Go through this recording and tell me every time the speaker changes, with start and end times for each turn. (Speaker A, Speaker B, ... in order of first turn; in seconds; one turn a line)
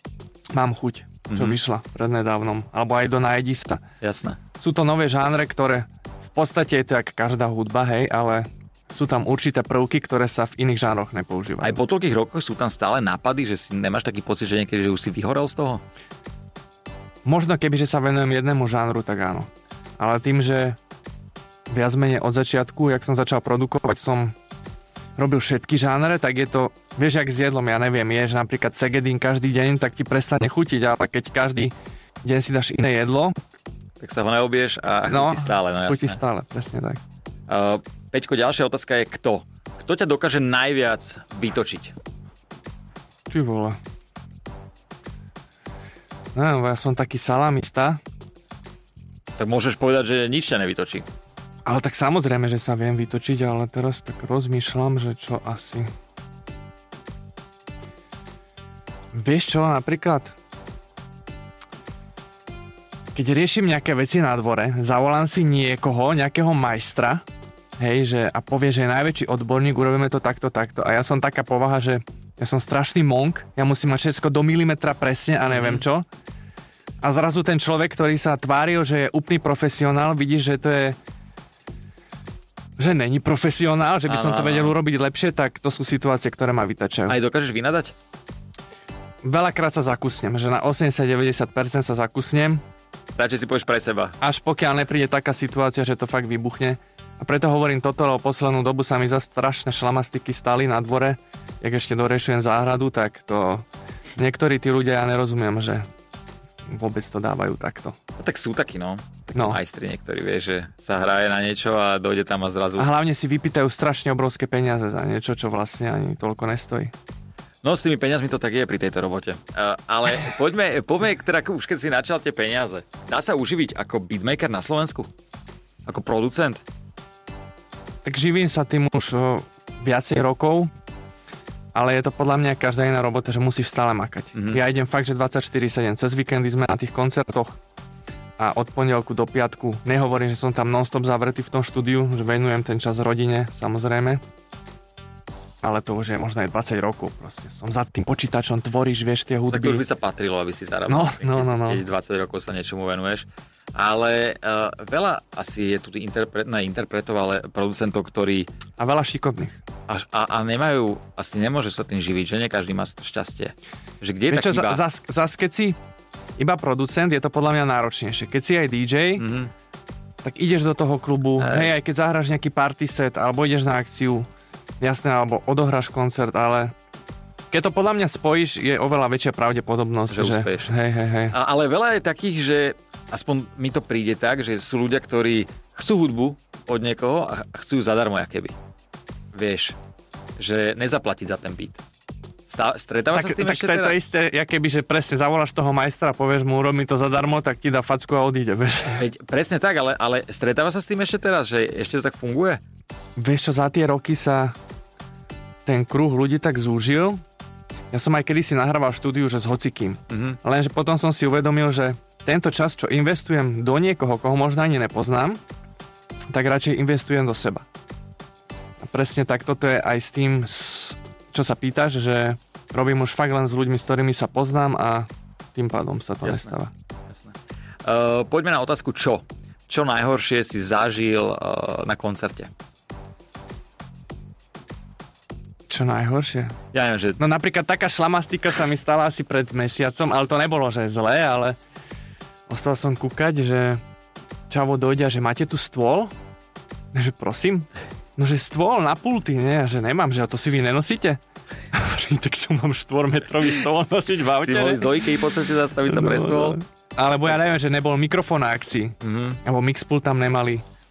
Speaker A: 0.5-3.8
Speaker B: 1.3-1.6
Speaker B: 4.0-4.4
Speaker A: 4.6-11.8
Speaker B: 11.6-15.8
Speaker A: 17.2-20.8
Speaker A: 21.7-24.4
Speaker A: 25.2-33.3
Speaker B: 34.0-36.2
Speaker A: 35.1-37.0
Speaker B: 37.5-41.9
Speaker A: 43.3-43.8
Speaker A: 46.4-48.0
Speaker B: 49.4-51.1
Speaker A: 51.7-55.9
Speaker A: 59.1-60.3
Speaker A: 63.1-67.2
Speaker A: 67.8-76.1
Speaker B: 75.5-75.8
Speaker A: 77.0-81.0
Speaker A: 82.8-87.2
Speaker B: 84.1-84.8
Speaker B: 87.1-87.9
Speaker A: 89.2-92.6
Speaker B: 93.2-94.2
Speaker A: 94.2-103.7
Speaker A: 104.2-105.9
Speaker A: 106.7-108.0
Speaker B: 108.2-112.9
Speaker A: 112.8-116.9
Speaker B: 117.6-125.1
Speaker B: 125.9-126.6
Speaker A: 128.0-130.7
Speaker A: 131.7-137.6
Speaker B: 134.3-134.6
Speaker A: 138.4-144.2
Speaker A: 145.6-149.8
Speaker B: 149.5-158.5
Speaker A: 150.9-151.8
Speaker A: 158.8-159.6
Speaker B: 159.9-164.8
Speaker A: 164.3-165.8
Speaker A: 166.4-169.2
Speaker B: 169.2-169.5
Speaker A: 170.2-174.3
Speaker B: 171.4-171.7
Speaker A: 174.8-176.7
Speaker A: 177.5-181.3
Speaker B: 180.1-180.7
Speaker B: 181.3-188.6
Speaker B: 189.3-189.8
Speaker B: 190.4-191.8
Speaker B: 192.5-194.0
Speaker A: 193.1-199.0
Speaker B: 198.9-202.6
Speaker A: 203.2-204.5
Speaker A: 205.7-207.2
Speaker A: 207.9-215.4
Speaker B: 210.1-210.4
Speaker A: 216.3-217.7
Speaker A: 218.8-226.7
Speaker B: 226.2-226.5
Speaker B: 227.1-232.5
Speaker A: 235.7-236.6
Speaker B: 236.7-237.2
Speaker A: 237.2-241.6
Speaker A: 242.5-243.8
Speaker A: 244.5-246.1
Speaker A: 246.9-251.2
Speaker A: 251.7-255.1
Speaker B: 254.4-256.6
Speaker A: 255.9-260.6
Speaker B: 259.0-259.4